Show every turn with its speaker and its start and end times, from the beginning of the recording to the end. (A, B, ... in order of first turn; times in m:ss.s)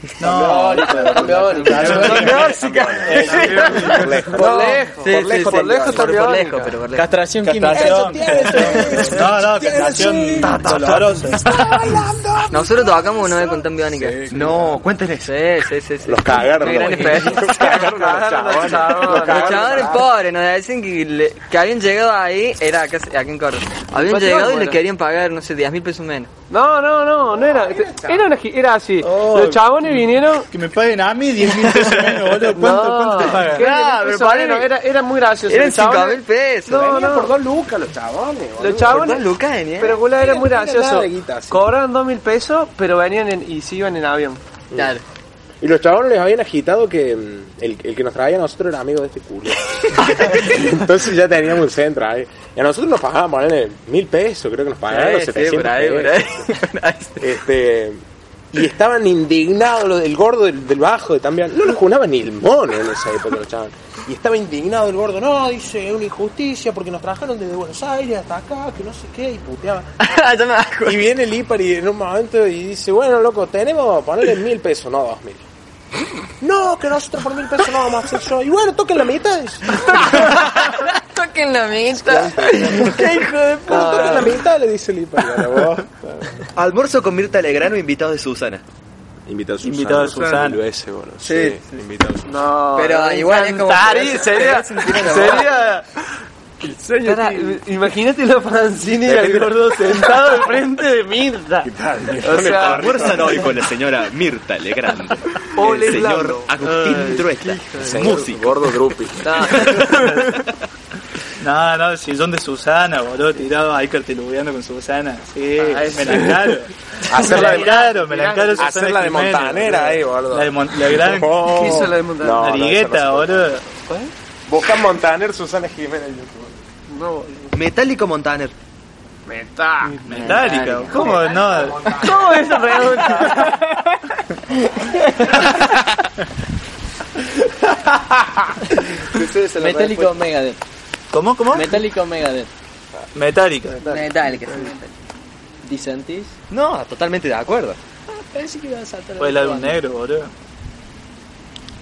0:00.2-0:04.1 A
0:00.2-0:06.8 B
0:01.7-0:06.3 C
0:01.7-0:02.6 D
0:03.1-0:04.0 D
0:05.0-0:07.1 D
0:06.9-0:08.5 E
0:07.4-0:11.4 A
0:07.7-0:14.8 C
0:10.4-0:11.7 F
0:12.5-0:14.2 D
0:14.3-0:15.3 F
0:15.2-0:17.9 D
0:16.0-0:20.0 C
0:17.3-0:20.0 B
0:18.9-0:26.3 D
0:23.9-0:24.8 B
0:26.5-0:30.5 B
0:27.4-0:28.2 C
0:29.0-0:29.6 A
0:30.5-0:33.7 A
0:32.4-0:37.3 B
0:33.4-0:34.7 D
0:35.5-0:36.8 D
0:36.7-0:39.0 C
0:38.6-0:44.4 B
0:38.9-0:40.0 F
0:40.1-0:41.6 C
0:44.7-0:45.0 C
0:44.7-0:45.0 D
0:45.6-0:56.6 C
0:54.9-0:57.3 D
0:57.2-1:09.9 C
1:10.0-1:11.0 D
1:10.8-1:15.4 C
1:16.4-1:20.4 C
1:19.7-1:24.3 D
1:22.0-1:23.1 C
1:23.6-1:25.9 C
1:23.7-1:24.4 B
1:26.5-1:28.6 F
1:29.3-1:32.4 C
1:29.6-1:30.6 A
1:31.2-1:31.8 D
1:32.2-1:35.8 B
1:32.8-1:35.7 D
1:36.6-1:43.5 B
1:39.0-1:39.9 C
1:41.6-1:43.5 C
1:42.4-1:48.8 F
1:45.5-1:48.2 B
1:47.8-1:49.4 C
1:49.2-1:50.2 B
1:49.5-1:50.0 F
1:49.6-1:50.3 A
1:51.4-2:03.6 A
1:55.6-1:58.8 B
1:57.0-1:57.8 C
1:58.6-2:03.6 C
2:01.4-2:02.6 B
2:03.8-2:04.1 B
2:04.5-2:06.6 C
2:06.9-2:07.5 B
2:07.5-2:08.5 F
2:09.3-2:10.4 B
2:10.1-2:12.1 A
2:10.1-2:11.4 F
2:10.9-2:13.6 B
2:19.0-2:20.2 B
2:19.6-2:20.6 E
2:21.1-2:21.8 A
2:21.5-2:22.5 E
2:23.1-2:23.8 A
2:23.7-2:24.7 B
2:23.8-2:24.9 D
2:25.6-2:26.4 E
2:26.5-2:27.8 F
2:28.2-2:29.8 E
2:29.2-2:30.3 A